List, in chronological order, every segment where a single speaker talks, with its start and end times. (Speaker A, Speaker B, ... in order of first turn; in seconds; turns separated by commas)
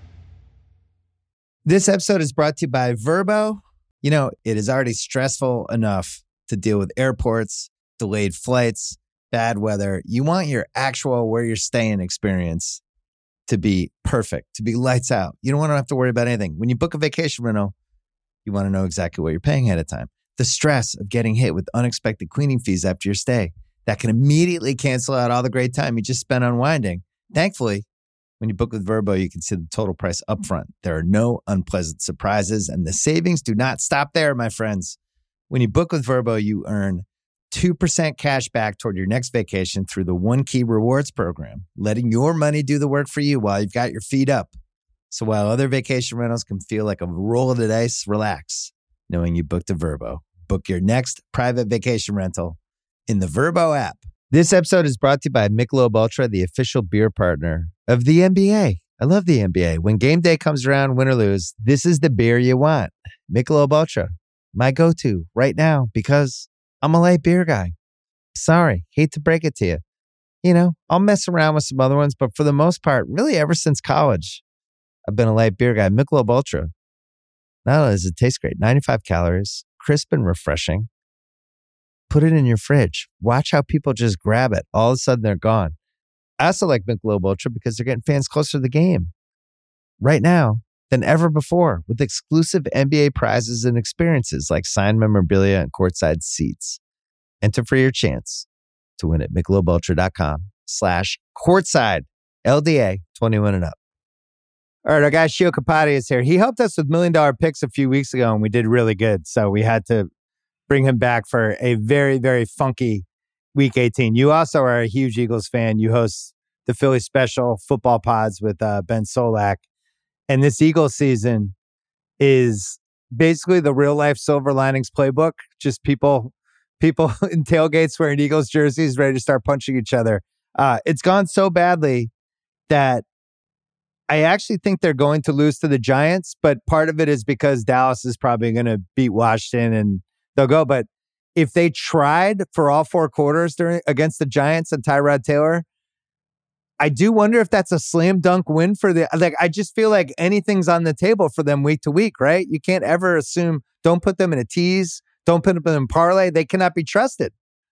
Speaker A: 1.7-12.8, Speaker A: 13.5-17.7, Speaker A: 18.4-27.9, Speaker A: 28.4-35.0, Speaker A: 35.5-44.5, Speaker A: 45.1-67.7, Speaker A: 68.3-69.8, Speaker A: 70.4-74.4, Speaker A: 75.1-76.7, Speaker A: 77.7-80.9, Speaker A: 82.1-85.8, Speaker A: 86.4-89.1, Speaker A: 90.0-96.8, Speaker A: 97.4-98.5, Speaker A: 99.0-103.8, Speaker A: 104.8-110.1, Speaker A: 110.7-119.6, Speaker A: 120.3-121.5, Speaker A: 122.2-132.1, Speaker A: 132.7-133.0, Speaker A: 134.1-145.7, Speaker A: 146.8-157.3